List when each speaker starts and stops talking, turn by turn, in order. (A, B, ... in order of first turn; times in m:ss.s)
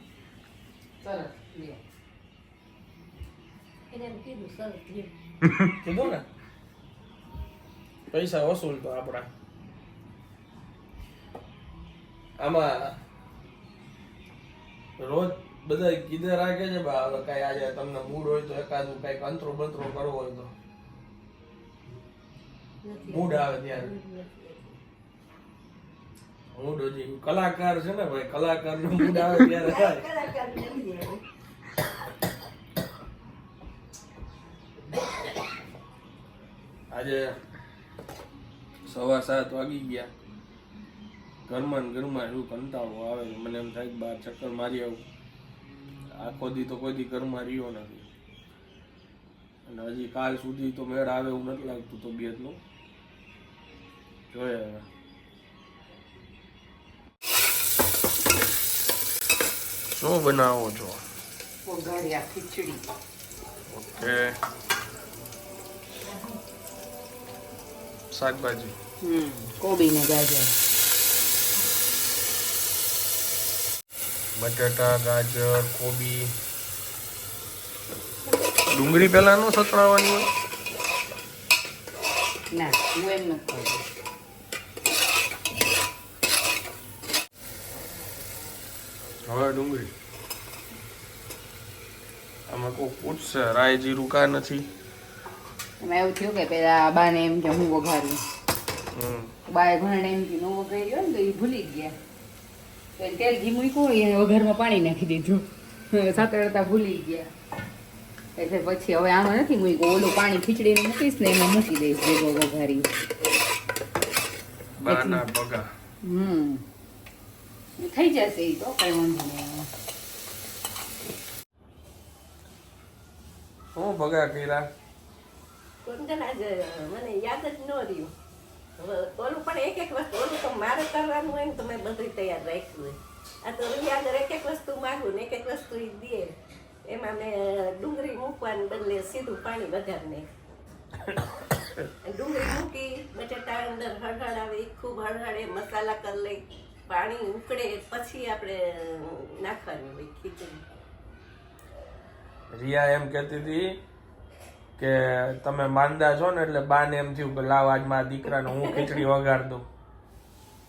0:01.0-0:01.8 A
0:03.9-0:05.1 B
0:05.7-0:06.2 C
0:08.1-0:09.3 C
0:12.4-0:13.0 C
0:15.0-0:20.5 C
0:22.8-0:24.7 B
0:23.1-0:23.9 C
0:26.5-0:30.0 C
0:29.0-0:31.2 B
0:36.9-0:37.3 C
0:38.8-0:40.1 C
0:41.5-0:45.0 C
0:46.2-0:48.1 C
0:49.6-0:52.6 C
0:54.3-0:54.8 C
1:00.0-1:01.0 C
1:01.6-1:02.8 A
1:03.7-1:04.4 C
1:08.1-1:08.7 C
1:09.0-1:10.5 A
1:14.3-1:16.3 C
1:18.7-1:20.3 C
1:22.5-1:23.8 A
1:29.2-1:29.9 C
1:32.5-1:34.7 C
1:35.8-1:38.2 A
1:38.9-1:39.3 C
1:39.5-1:41.9 A
1:43.0-1:47.3 A
1:48.4-1:52.9 A
1:54.8-1:55.7 C
1:54.9-1:55.2 A
1:56.0-1:56.6 A
1:57.8-1:59.7 A
2:03.7-2:04.6 C
2:05.8-2:08.1 B
2:08.8-2:20.3 B
2:22.0-2:30.6 B
2:32.5-2:33.8 C
2:34.8-2:39.7 C
2:38.4-2:39.0 B